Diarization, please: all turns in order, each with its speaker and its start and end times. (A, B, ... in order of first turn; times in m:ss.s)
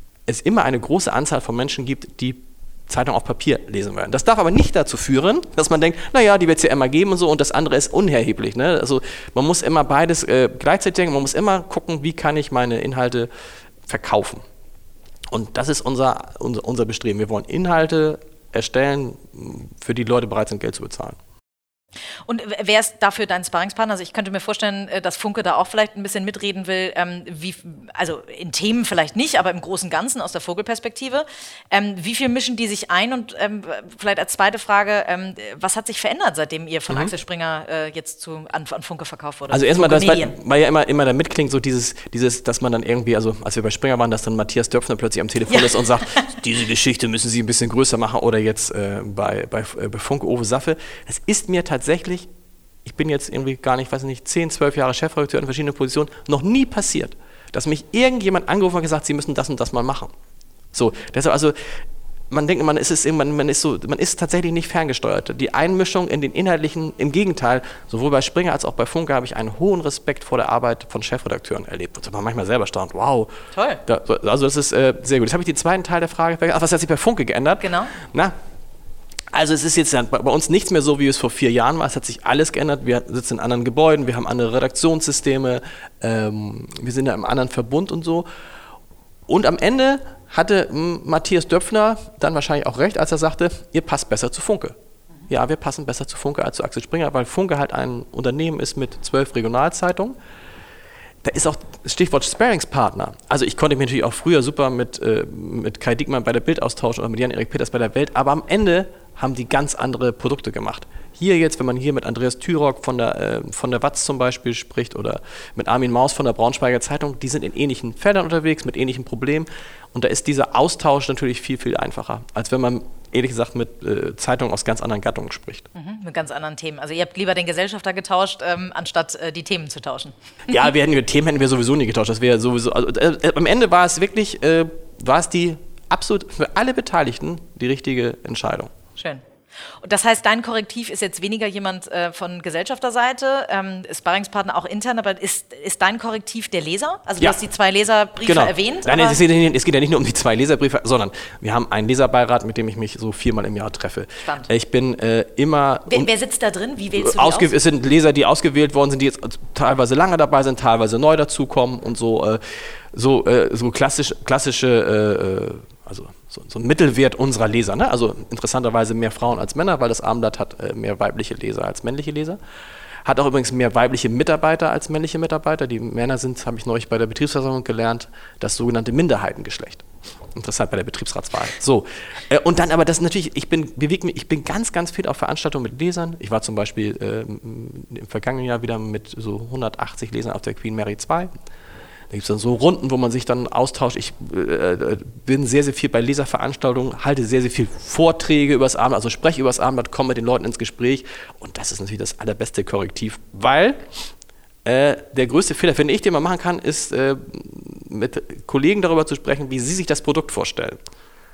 0:00.3-0:13.3 A
0:13.8-0:14.4 A
0:15.3-0:21.2 A
0:22.3-0:40.3 B
0:36.9-0:37.1 A
0:39.5-0:52.3 A
0:45.5-0:46.3 B
0:52.8-1:00.1 A
1:00.7-1:13.3 A
1:13.5-1:13.8 B
1:13.8-1:18.3 A
1:17.6-1:17.9 B
1:19.3-1:28.2 A
1:29.3-1:34.8 A
1:35.3-1:40.2 A
1:41.2-2:05.7 A
2:05.7-2:10.1 B
2:10.5-2:18.7 A
2:19.0-2:19.2 B
2:19.8-2:29.2 B
2:28.2-2:36.1 A
2:34.2-2:34.5 B
2:35.9-2:37.5 B
2:37.0-2:52.4 A
2:53.0-2:59.8 A
3:00.3-3:11.3 A
3:12.1-3:23.8 A
3:24.6-3:30.8 A